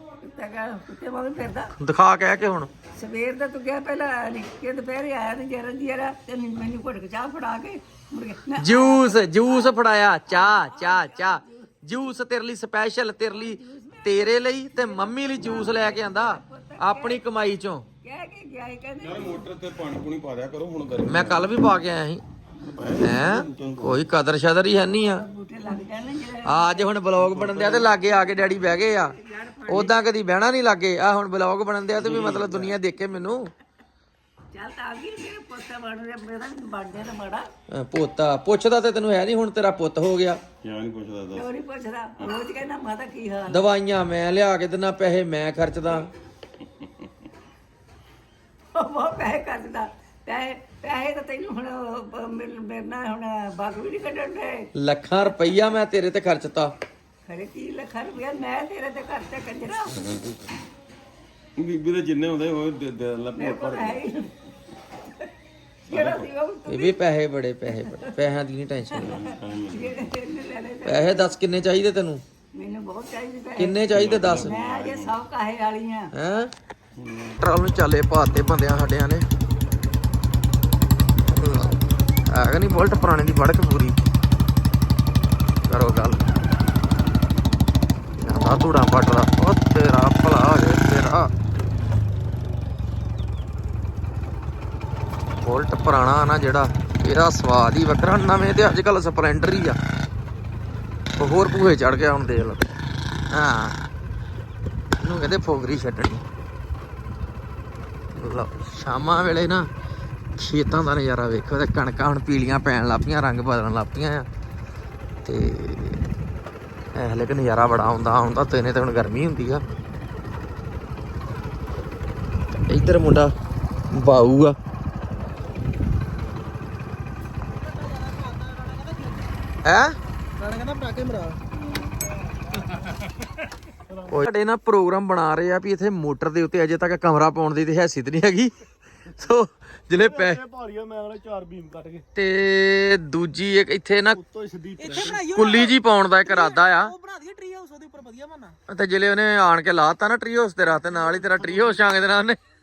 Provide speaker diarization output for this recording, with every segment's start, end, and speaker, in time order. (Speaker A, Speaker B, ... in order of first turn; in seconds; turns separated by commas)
Speaker A: 0.2-1.7, Speaker B: 1.8-2.7, Speaker A: 2.9-9.8, Speaker B: 8.6-17.9, Speaker A: 10.3-11.8, Speaker A: 13.3-17.2, Speaker A: 18.0-19.5, Speaker C: 19.0-21.6, Speaker B: 21.0-22.2, Speaker C: 22.7-24.0, Speaker B: 23.0-25.2, Speaker A: 25.0-26.9, Speaker B: 26.4-29.1, Speaker C: 27.2-27.9, Speaker A: 27.9-29.9, Speaker B: 29.7-33.5, Speaker C: 32.0-32.8, Speaker A: 34.5-37.5, Speaker B: 37.7-40.4, Speaker C: 40.6-41.5, Speaker A: 41.3-43.6, Speaker B: 43.5-46.1, Speaker A: 48.7-54.7, Speaker B: 54.8-56.7, Speaker A: 57.2-60.1, Speaker C: 61.6-64.0, Speaker A: 63.4-64.4, Speaker A: 65.9-67.0, Speaker C: 65.9-66.3, Speaker B: 66.7-69.2, Speaker A: 67.7-68.2, Speaker A: 68.9-71.4, Speaker C: 69.0-70.0, Speaker B: 70.8-72.2, Speaker A: 72.5-76.1, Speaker B: 73.6-74.6, Speaker C: 73.9-75.2, Speaker B: 76.1-76.5, Speaker C: 77.0-77.4, Speaker B: 77.4-79.3, Speaker B: 81.2-84.0, Speaker B: 85.7-86.3, Speaker B: 88.2-91.3, Speaker B: 95.4-99.8, Speaker B: 101.2-102.7, Speaker B: 103.3-103.8, Speaker B: 105.0-106.3, Speaker B: 108.1-109.7, Speaker B: 110.3-114.3, Speaker B: 115.2-116.1, Speaker B: 117.0-119.6, Speaker B: 122.7-123.3, Speaker B: 123.9-124.6, Speaker D: 127.5-129.3, Speaker B: 129.6-130.0, Speaker D: 130.4-131.4, Speaker D: 132.5-133.0, Speaker E: 133.9-134.2, Speaker B: 134.1-140.4, Speaker E: 140.0-142.1, Speaker B: 142.2-144.2, Speaker E: 144.1-145.5, Speaker D: 144.8-148.6, Speaker B: 145.2-146.9, Speaker B: 148.7-152.4, Speaker E: 151.0-151.8